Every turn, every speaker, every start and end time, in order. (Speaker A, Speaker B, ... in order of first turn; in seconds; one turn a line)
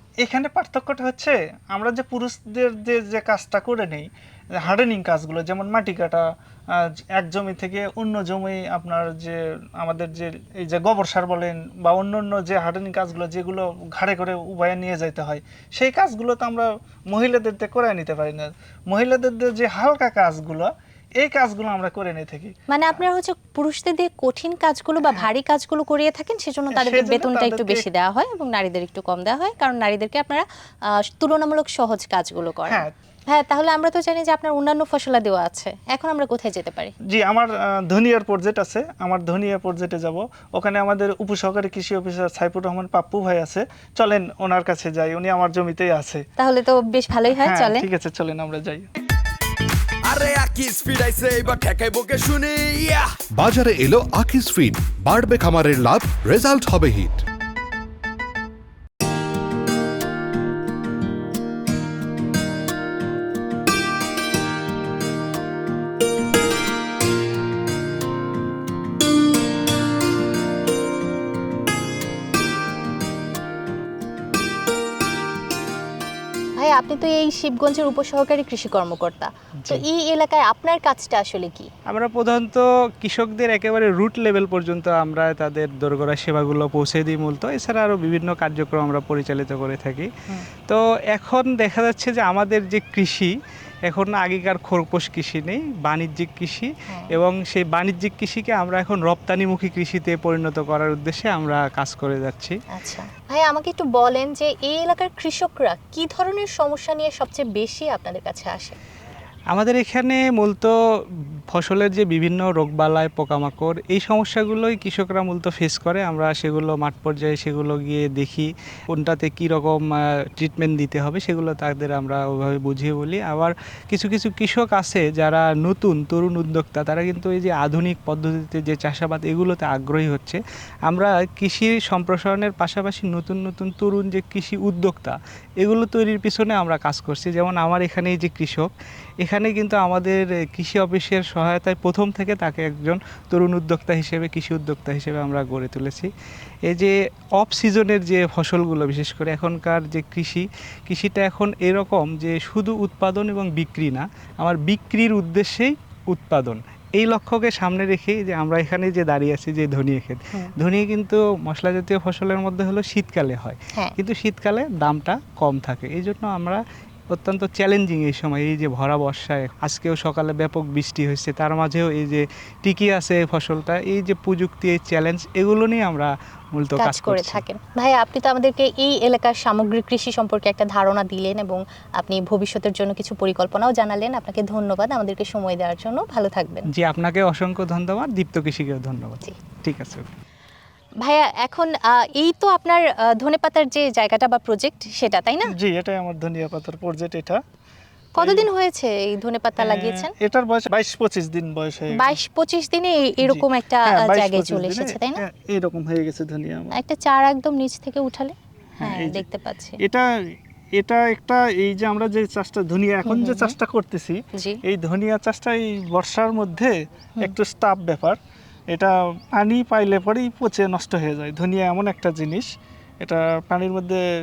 Speaker A: 0.2-23.0
Speaker B: 22.7-36.9
Speaker A: 26.7-27.9
Speaker A: 32.7-32.9
Speaker A: 37.1-46.2
Speaker B: 46.4-47.9
Speaker A: 47.4-48.9
Speaker C: 50.0-53.2
Speaker D: 53.4-57.2
Speaker B: 76.6-81.7
Speaker E: 81.9-90.1
Speaker E: 90.7-93.3
Speaker E: 93.9-102.6
Speaker B: 96.9-97.2
Speaker B: 102.7-108.8
Speaker E: 109.5-110.7
Speaker E: 111.5-119.8
Speaker E: 120.4-138.7
Speaker E: 139.2-146.1
Speaker E: 146.7-166.6
Speaker E: 167.1-177.4
Speaker B: 176.8-186.7
Speaker E: 186.7-190.1
Speaker B: 191.0-195.5
Speaker A: 195.5-197.4
Speaker B: 198.2-200.1
Speaker A: 198.2-198.5
Speaker A: 199.6-202.2
Speaker B: 201.9-205.2
Speaker A: 203.2-206.8
Speaker B: 206.7-209.8
Speaker A: 208.8-209.2
Speaker A: 209.8-210.1
Speaker A: 210.8-218.2
Speaker B: 213.1-213.6
Speaker A: 218.7-222.5
Speaker A: 223.0-224.0